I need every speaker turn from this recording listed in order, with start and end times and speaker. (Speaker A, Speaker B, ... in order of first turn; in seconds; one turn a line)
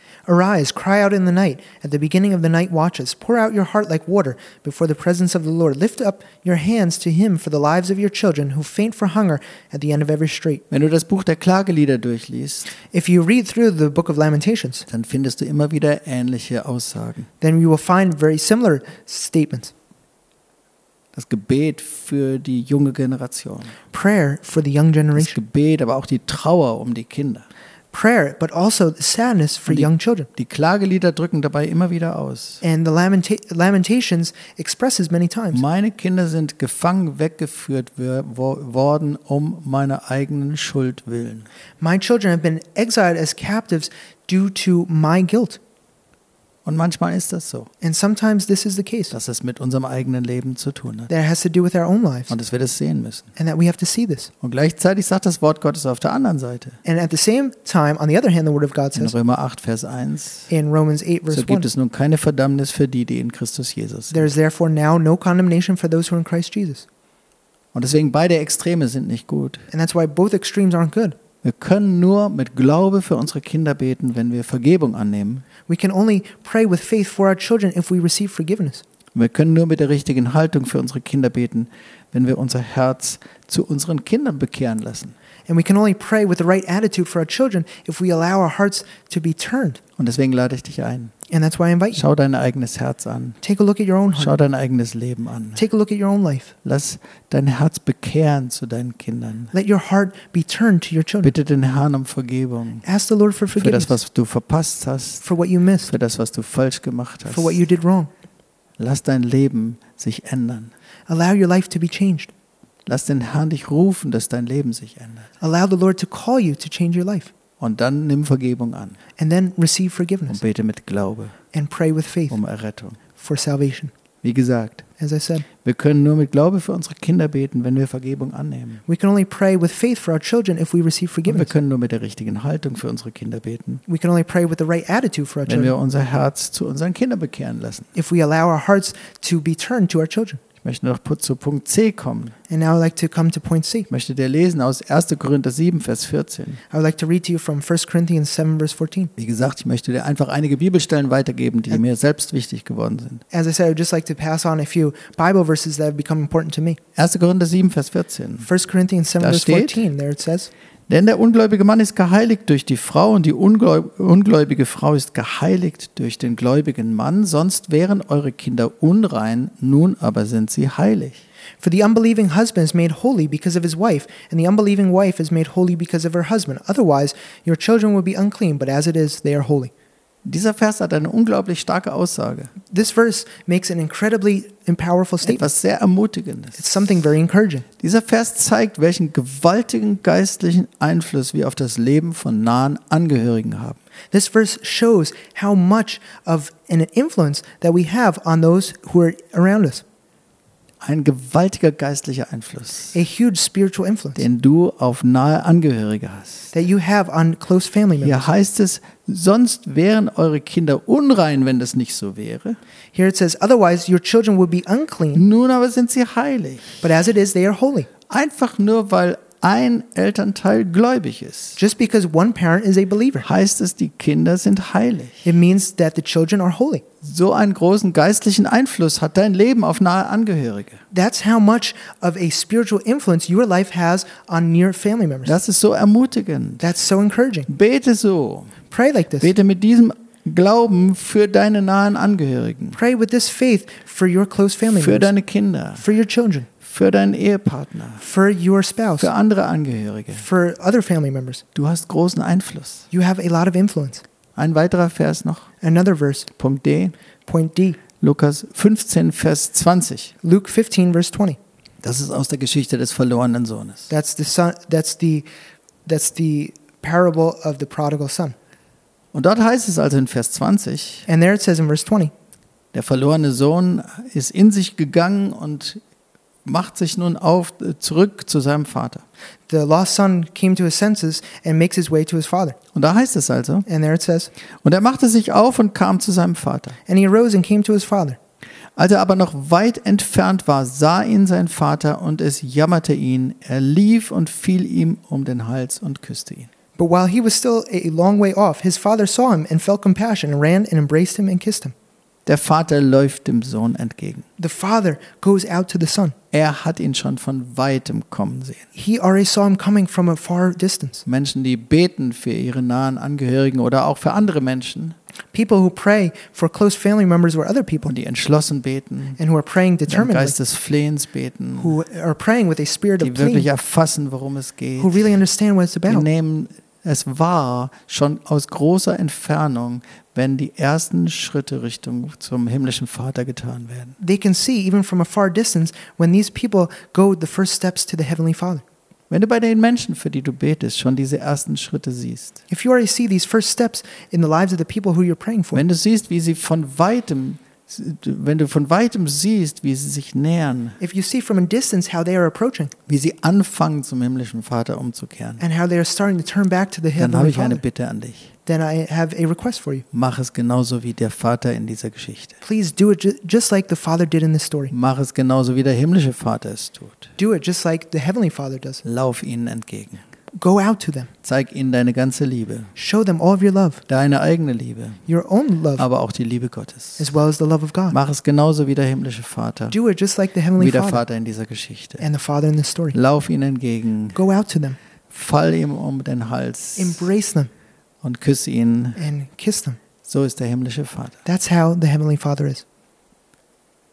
Speaker A: 0.3-10.6
Speaker B: 10.7-12.7
Speaker A: 12.9-14.8
Speaker B: 14.9-17.3
Speaker A: 17.4-19.7
Speaker B: 21.1-23.8
Speaker A: 23.9-25.4
Speaker B: 25.2-27.5
Speaker A: 27.9-30.3
Speaker B: 29.7-32.6
Speaker A: 32.6-35.6
Speaker B: 35.5-41.5
Speaker A: 41.8-45.6
Speaker B: 46.6-47.7
Speaker A: 47.8-49.1
Speaker B: 49.1-51.1
Speaker A: 51.1-52.3
Speaker B: 52.3-53.3
Speaker A: 53.4-54.3
Speaker B: 54.4-56.8
Speaker A: 56.8-59.1
Speaker B: 59.0-60.5
Speaker A: 60.5-61.7
Speaker B: 61.3-64.3
Speaker A: 64.1-66.8
Speaker B: 67.7-69.7
Speaker A: 69.7-71.2
Speaker B: 71.4-75.5
Speaker A: 75.7-78.8
Speaker B: 79.2-85.1
Speaker A: 85.5-89.8
Speaker B: 90.0-91.1
Speaker A: 91.3-92.0
Speaker B: 91.9-93.4
Speaker A: 93.4-94.4
Speaker B: 94.2-95.6
Speaker A: 95.6-96.5
Speaker B: 96.6-99.5
Speaker A: 99.5-101.3
Speaker B: 101.2-102.8
Speaker A: 102.8-104.0
Speaker B: 103.6-105.2
Speaker A: 105.2-105.9
Speaker B: 105.9-107.6
Speaker A: 107.3-108.1
Speaker B: 108.8-110.7
Speaker A: 111.1-112.3
Speaker B: 112.9-115.3
Speaker A: 115.4-117.3
Speaker B: 117.6-119.0
Speaker A: 119.2-120.4
Speaker B: 120.3-121.4
Speaker A: 121.5-122.4
Speaker B: 122.3-123.0
Speaker A: 123.2-123.9
Speaker B: 124.2-124.8
Speaker A: 125.0-125.5
Speaker B: 125.6-128.8
Speaker A: 128.9-131.5
Speaker B: 131.3-133.8
Speaker A: 133.9-135.7
Speaker B: 135.5-137.9
Speaker A: 137.9-140.4
Speaker B: 140.6-142.4
Speaker A: 142.5-143.9
Speaker B: 143.9-146.6
Speaker A: 146.7-149.1
Speaker B: 149.2-153.2
Speaker A: 153.3-156.8
Speaker B: 157.0-158.5
Speaker A: 158.4-160.5
Speaker B: 159.2-159.8
Speaker B: 160.9-171.2
Speaker A: 171.6-179.7
Speaker B: 180.2-182.5
Speaker A: 182.7-185.5
Speaker B: 185.2-186.6
Speaker A: 186.6-187.7
Speaker B: 187.8-193.8
Speaker A: 194.1-199.8
Speaker B: 200.8-202.9
Speaker A: 202.9-204.2
Speaker B: 204.2-206.5
Speaker A: 206.5-208.3
Speaker B: 208.0-212.6
Speaker A: 212.9-215.2
Speaker B: 215.1-216.8
Speaker A: 216.8-217.9
Speaker B: 218.1-221.6
Speaker A: 221.6-223.3
Speaker B: 223.2-225.2
Speaker A: 225.2-226.8
Speaker B: 227.0-230.8
Speaker A: 230.9-235.4
Speaker B: 235.3-236.6
Speaker A: 236.6-237.5
Speaker B: 237.5-238.6
Speaker A: 238.7-239.3
Speaker B: 239.2-242.8
Speaker A: 242.7-245.1
Speaker B: 244.7-245.8
Speaker A: 245.8-246.5
Speaker B: 246.6-248.0
Speaker A: 248.0-249.1
Speaker B: 249.0-250.3
Speaker A: 250.2-251.4
Speaker B: 251.6-252.9
Speaker A: 252.9-254.0
Speaker B: 254.4-255.5
Speaker A: 255.6-256.3
Speaker B: 256.4-256.9
Speaker A: 257.3-257.8
Speaker B: 258.0-260.1
Speaker A: 260.2-261.4
Speaker B: 261.8-263.9
Speaker A: 263.9-265.3
Speaker A: 265.9-268.4
Speaker B: 269.1-271.1
Speaker A: 271.1-272.1
Speaker B: 272.7-275.8
Speaker B: 276.4-279.0
Speaker A: 279.5-282.6
Speaker B: 282.7-283.7
Speaker A: 283.7-284.3
Speaker B: 284.6-286.8
Speaker A: 286.9-288.2
Speaker B: 288.8-296.5
Speaker A: 296.8-301.7
Speaker B: 302.3-304.2
Speaker A: 304.4-306.1
Speaker B: 306.3-308.7
Speaker A: 308.7-311.1
Speaker B: 311.1-314.9
Speaker A: 315.3-317.9
Speaker B: 317.8-319.2
Speaker A: 319.2-320.4
Speaker B: 319.9-321.8
Speaker A: 321.6-323.5
Speaker B: 323.0-325.1
Speaker A: 324.8-326.1
Speaker B: 325.9-334.0
Speaker A: 334.0-338.6
Speaker B: 339.1-342.4
Speaker A: 342.5-345.6
Speaker B: 345.5-350.8
Speaker A: 350.8-352.7
Speaker B: 352.9-355.4
Speaker A: 355.4-357.6
Speaker B: 357.0-358.3
Speaker A: 358.4-359.9
Speaker B: 359.9-362.4
Speaker A: 362.4-364.7
Speaker B: 364.7-367.1
Speaker A: 367.2-368.8
Speaker B: 368.8-370.0
Speaker A: 370.3-371.1
Speaker B: 371.2-372.7
Speaker A: 372.8-373.8
Speaker B: 373.9-375.1
Speaker A: 375.1-375.9
Speaker B: 375.8-377.1
Speaker A: 377.0-378.0
Speaker B: 377.9-379.8
Speaker A: 379.7-381.1
Speaker B: 380.6-382.1
Speaker A: 382.0-383.0
Speaker B: 382.9-384.2
Speaker A: 384.1-384.8
Speaker B: 385.1-387.1
Speaker A: 386.8-387.5
Speaker B: 388.0-389.0
Speaker A: 389.0-389.8
Speaker B: 390.1-391.2
Speaker A: 391.2-392.6